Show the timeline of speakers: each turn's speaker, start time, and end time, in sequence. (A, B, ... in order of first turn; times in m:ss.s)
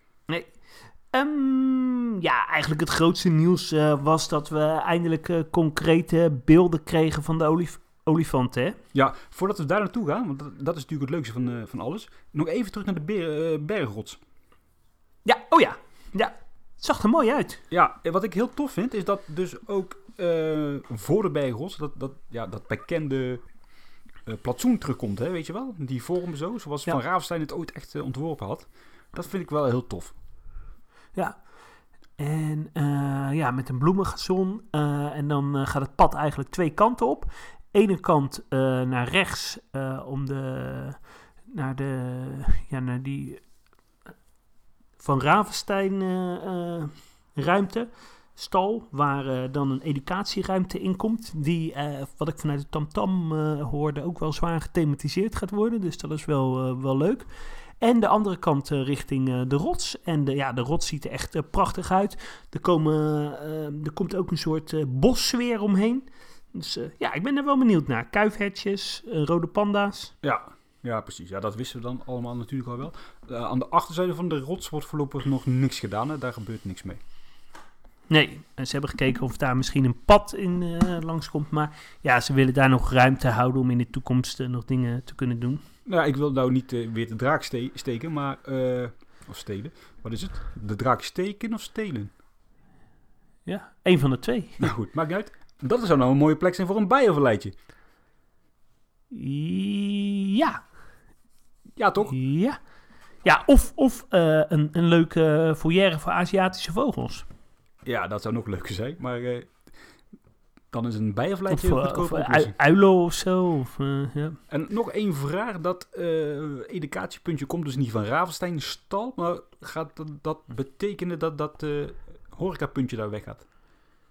0:00.3-0:08.8 A
0:08.9-0:14.2 B
0:15.2-0:17.6 A
0:17.7-0:23.5 B
0:24.2-0:30.1 B
0:31.1-0:43.5 A
0:45.0-1:10.1 A
1:10.2-1:17.0 B
1:18.1-1:25.6 A
1:25.8-1:32.1 B
1:33.4-1:34.6 A
1:34.6-1:37.5 B
1:39.1-1:40.7 A
1:41.8-1:42.2 B
1:42.1-1:47.3 A
1:47.8-1:49.7 B
1:50.7-1:52.5 B
1:51.5-1:54.4 A
1:54.5-2:03.4 B